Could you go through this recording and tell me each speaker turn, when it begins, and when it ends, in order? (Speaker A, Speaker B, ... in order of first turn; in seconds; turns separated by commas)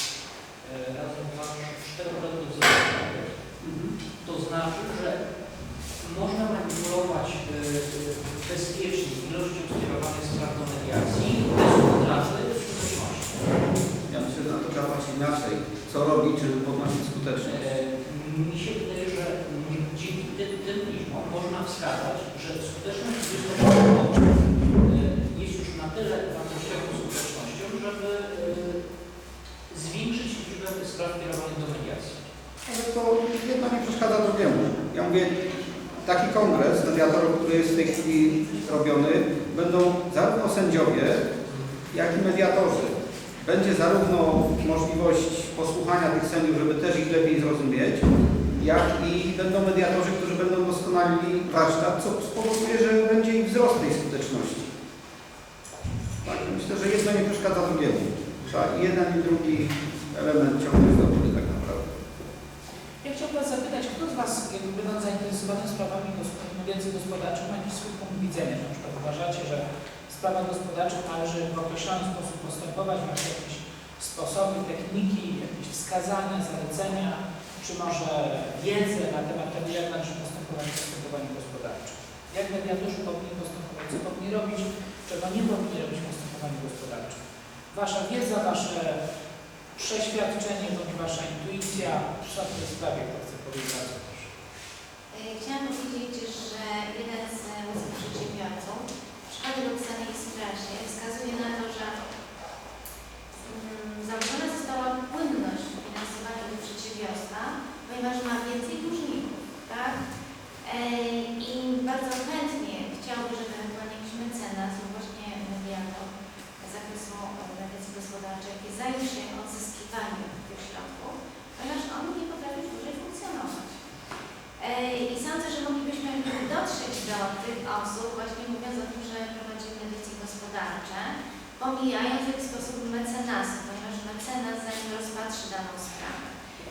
Speaker A: 0.6-3.3, Speaker B: 3.6-3.9, Speaker A: 4.2-5.2, Speaker A: 6.0-13.4, Speaker B: 14.1-17.5, Speaker A: 17.4-28.8, Speaker A: 29.7-32.3, Speaker B: 32.7-35.4, Speaker B: 36.0-41.3, Speaker B: 41.9-54.7, Speaker B: 56.2-61.9, Speaker C: 63.0-87.2, Speaker C: 87.7-89.0, Speaker C: 89.7-94.3, Speaker D: 95.1-102.0, Speaker D: 103.5-110.0, Speaker D: 110.6-123.8, Speaker D: 124.6-136.2